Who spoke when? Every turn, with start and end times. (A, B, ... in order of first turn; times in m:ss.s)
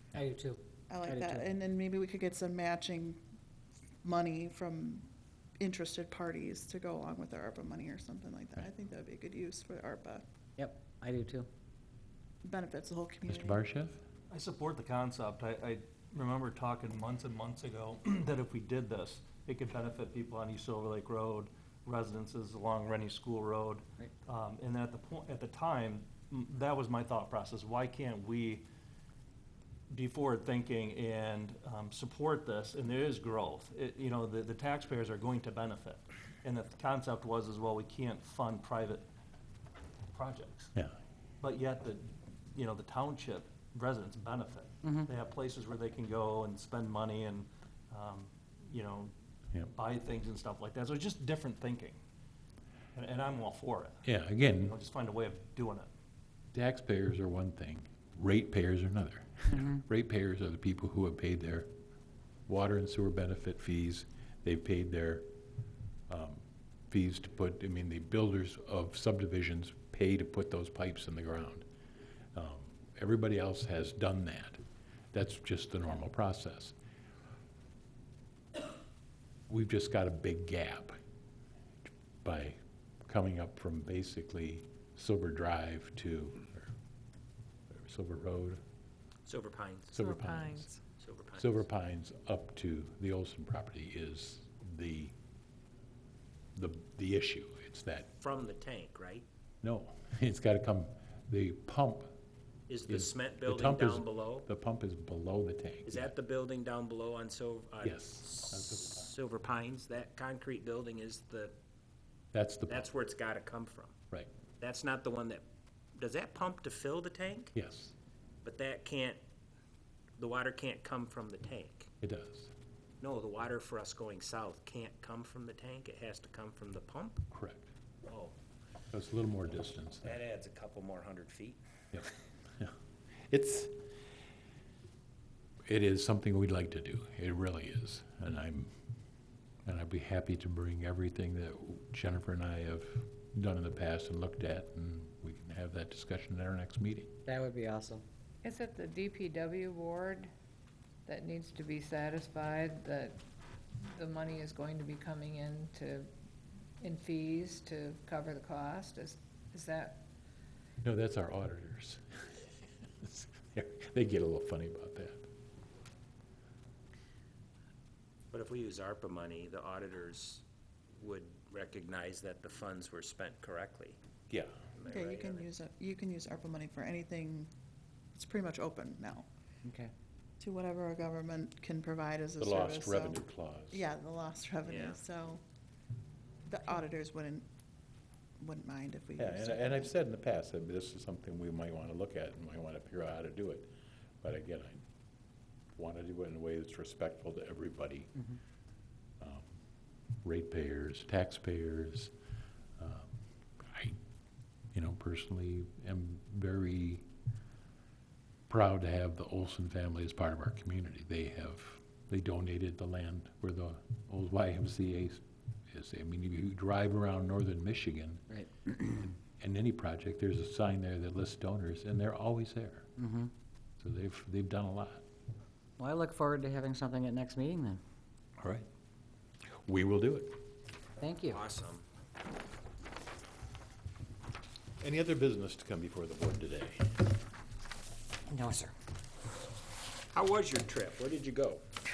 0:00.2-0:01.5 A
0:00.9-0:03.2 B
0:04.0-0:05.0 B
0:05.6-0:10.2 B
0:10.6-0:11.5 A
0:12.4-0:13.6 B
0:13.3-0:14.0 C
0:14.3-0:28.6 D
0:29.9-0:39.1 D
0:40.1-0:40.7 D
0:41.4-0:49.1 D
0:44.8-0:45.1 A
0:49.7-0:52.0 D
0:52.9-0:55.9 D
0:54.0-0:54.7 C
0:56.5-1:01.7 C
0:59.5-0:59.8 A
1:02.5-1:05.2 C
1:06.1-1:11.6 C
1:12.3-1:14.6 C
1:15.1-1:16.7 C
1:19.5-1:21.0 C
1:22.2-1:26.7 C
1:27.7-1:28.6 C
1:29.2-1:29.9 E
1:29.9-1:30.7 C
1:30.0-1:30.8 F
1:31.0-1:31.7 E
1:31.3-1:35.1 C
1:36.5-1:38.1 C
1:38.2-1:39.2 E
1:39.6-1:42.1 C
1:42.7-1:44.5 E
1:42.9-1:46.1 C
1:45.8-1:51.6 E
1:47.8-1:49.1 C
1:52.3-1:52.8 C
1:52.7-1:54.0 E
1:54.6-1:55.4 E
1:56.0-1:57.5 E
1:57.5-1:57.9 C
1:58.4-1:59.2 E
2:00.2-2:01.9 E
2:02.0-2:02.5 C
2:03.0-2:07.2 E
2:07.3-2:07.7 C
2:08.1-2:08.3 E
2:08.9-2:10.1 C
2:10.0-2:11.6 E
2:11.9-2:12.7 C
2:13.3-2:13.7 C
2:15.7-2:18.7 C
2:19.6-2:27.2 C
2:27.2-2:28.0 A
2:28.4-2:30.3 F
2:31.0-2:33.2 F
2:33.9-2:36.1 F
2:36.8-2:40.0 F
2:40.8-2:42.0 C
2:43.0-2:45.2 C
2:48.3-2:50.4 E
2:51.0-2:54.0 E
2:54.7-2:55.5 E
2:54.9-2:57.5 B
2:58.1-2:59.3 B
2:59.6-2:59.9 A
3:00.4-3:03.2 B
3:02.4-3:03.8 C
3:03.7-3:05.4 B
3:04.6-3:05.0 E
3:06.5-3:07.4 B
3:08.4-3:09.9 B
3:09.2-3:13.7 C
3:14.2-3:14.8 C
3:15.8-3:18.2 C
3:19.2-3:19.5 C
3:20.2-3:22.1 C
3:22.8-3:24.0 C
3:24.7-3:27.0 C
3:28.5-3:38.3 C
3:38.3-3:38.9 A
3:39.0-3:42.9 C
3:43.0-3:43.3 A
3:43.8-3:45.0 C
3:45.8-3:47.8 A
3:48.4-3:48.6 C
3:49.6-3:50.4 C
3:51.0-3:51.4 A
3:51.3-3:51.8 E
3:54.8-3:57.0 C
3:58.3-3:58.7 A
4:00.1-4:01.6 E